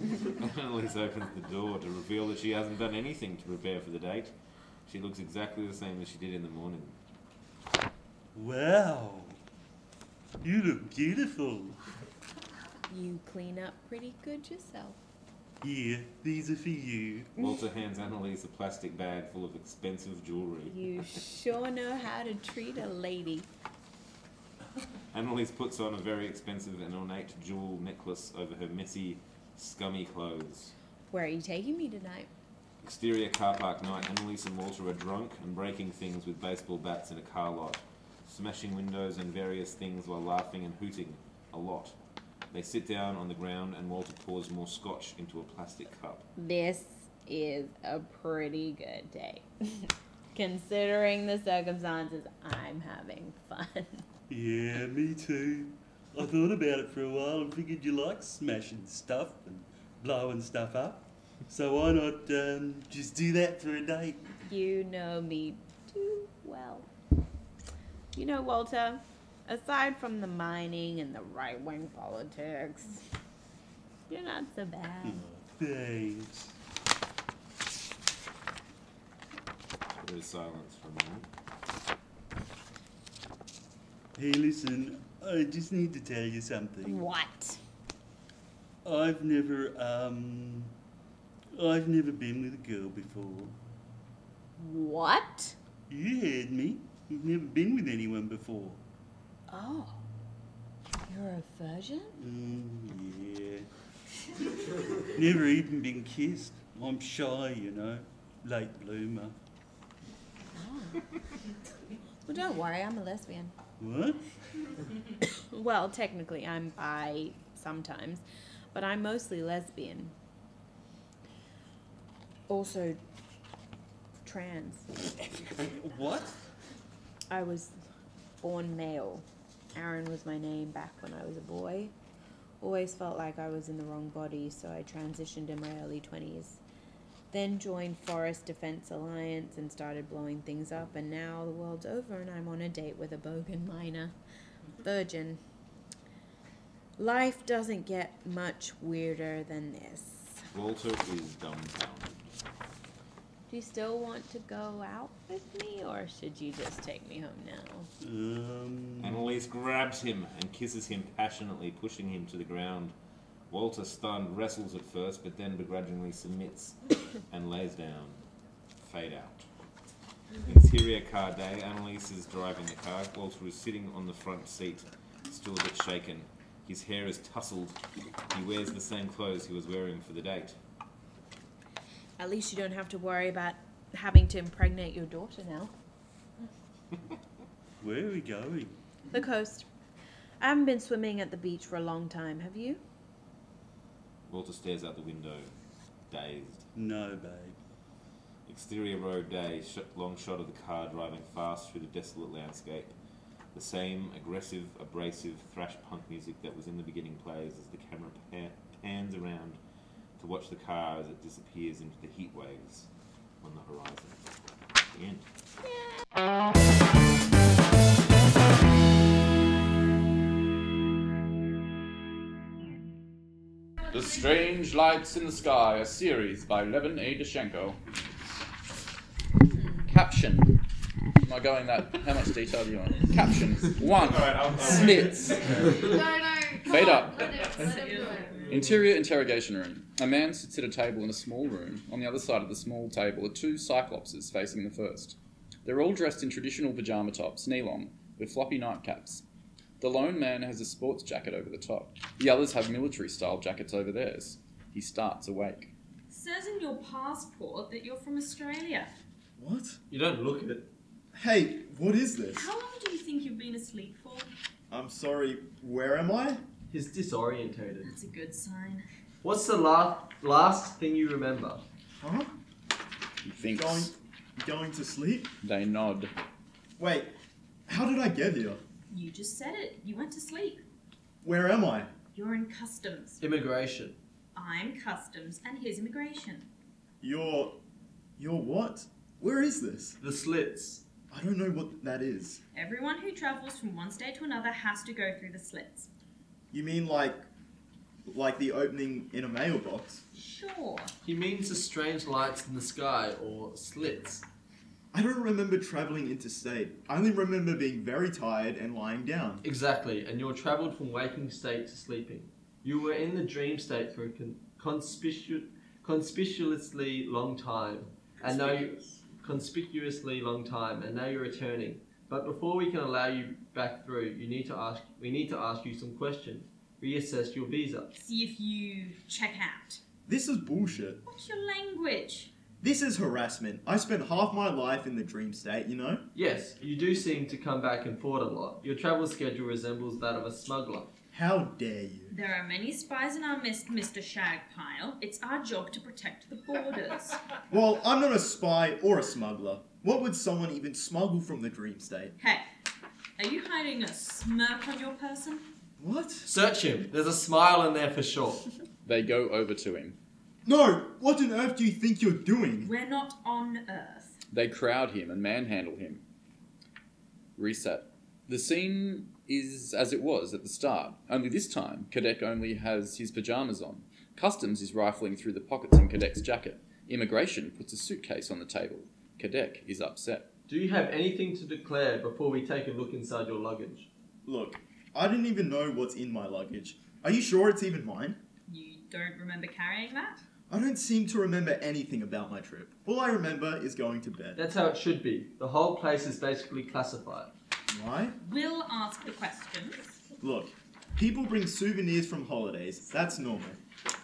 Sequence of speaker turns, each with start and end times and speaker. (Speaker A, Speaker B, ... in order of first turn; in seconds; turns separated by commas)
Speaker A: 0.4-4.3, Speaker A: 4.8-7.0, Speaker B: 8.3-9.4, Speaker B: 10.4-11.8, Speaker C: 12.9-15.0, Speaker B: 15.6-17.3, Speaker A: 17.4-20.9, Speaker C: 20.7-23.5, Speaker A: 25.1-30.8, Speaker C: 31.1-32.3, Speaker A: 32.8-42.0, Speaker A: 42.5-46.2, Speaker C: 46.4-54.0, Speaker B: 54.3-64.2, Speaker C: 64.4-66.9, Speaker C: 68.1-73.0, Speaker C: 74.1-75.2, Speaker B: 75.0-76.5, Speaker A: 80.0-81.3, Speaker B: 84.2-87.0, Speaker C: 86.8-87.6, Speaker B: 88.8-90.7, Speaker B: 91.5-93.5, Speaker C: 94.6-95.5, Speaker B: 95.9-98.8, Speaker C: 99.5-100.0, Speaker C: 101.0-102.1, Speaker B: 102.2-103.7, Speaker B: 105.1-109.3, Speaker C: 110.5-111.3, Speaker C: 112.2-113.5, Speaker B: 113.8-114.3, Speaker C: 115.2-120.1, Speaker C: 122.5-123.0, Speaker C: 124.2-125.9, Speaker B: 125.6-126.4, Speaker C: 127.3-127.8, Speaker C: 128.4-131.9, Speaker C: 132.6-136.6, Speaker C: 137.3-144.1, Speaker C: 144.8-145.4, Speaker C: 147.0-150.5, Speaker A: 150.5-152.2, Speaker C: 153.5-157.9, Speaker B: 158.0-159.2, Speaker A: 159.0-162.9, Speaker A: 163.5-168.3, Speaker A: 168.8-169.5, Speaker A: 170.4-180.6, Speaker C: 182.2-185.7, Speaker B: 187.8-188.7, Speaker C: 189.1-189.7, Speaker C: 190.4-192.8, Speaker A: 194.3-195.5, Speaker A: 196.1-196.7, Speaker B: 196.7-197.6, Speaker A: 198.4-202.9, Speaker A: 203.5-209.6, Speaker A: 210.2-212.9, Speaker A: 213.4-214.3, Speaker A: 214.9-215.3, Speaker D: 223.9-227.8, Speaker C: 229.5-229.8, Speaker D: 229.9-230.5, Speaker D: 231.2-235.8, Speaker A: 234.0-235.9, Speaker E: 235.9-238.5, Speaker D: 236.6-237.5, Speaker F: 237.6-238.3, Speaker G: 238.3-238.8, Speaker D: 238.4-249.2, Speaker D: 249.8-255.7, Speaker F: 256.1-258.9, Speaker H: 259.4-259.8, Speaker G: 259.9-260.7, Speaker H: 261.1-262.5, Speaker F: 262.3-264.3, Speaker H: 264.7-266.4, Speaker G: 266.7-267.9, Speaker F: 267.8-268.8, Speaker G: 269.2-271.6, Speaker H: 272.0-272.3, Speaker D: 273.2-273.9, Speaker H: 273.4-275.3, Speaker D: 275.4-276.1, Speaker H: 276.8-277.1, Speaker H: 277.7-278.6, Speaker F: 278.9-280.6, Speaker H: 281.2-281.9, Speaker F: 282.1-283.2, Speaker G: 283.2-284.0, Speaker F: 284.3-286.5, Speaker H: 287.0-287.6, Speaker H: 288.2-290.0, Speaker G: 290.0-290.8, Speaker H: 291.1-292.4, Speaker F: 292.5-295.9, Speaker H: 296.5-297.2, Speaker H: 298.1-300.0, Speaker F: 300.1-300.9, Speaker G: 301.0-304.2, Speaker H: 304.9-309.4, Speaker G: 309.4-328.0, Speaker A: 318.2-319.1, Speaker F: 328.0-329.8, Speaker H: 330.1-331.0, Speaker F: 331.1-332.3, Speaker H: 332.6-336.0, Speaker G: 336.1-340.9, Speaker H: 341.1-342.1, Speaker F: 342.1-347.2, Speaker H: 347.5-352.1, Speaker F: 352.2-352.4, Speaker F: 353.2-355.4, Speaker H: 355.8-356.3, Speaker G: 356.2-358.4, Speaker D: 358.8-360.0, Speaker H: 360.4-362.7, Speaker F: 362.6-364.2, Speaker D: 364.3-366.0, Speaker D: 367.4-380.3, Speaker G: 380.5-383.9, Speaker H: 384.2-388.2, Speaker F: 388.5-390.2, Speaker H: 390.5-394.4, Speaker G: 394.4-397.3, Speaker H: 397.7-398.1, Speaker F: 398.2-399.9, Speaker H: 400.2-403.6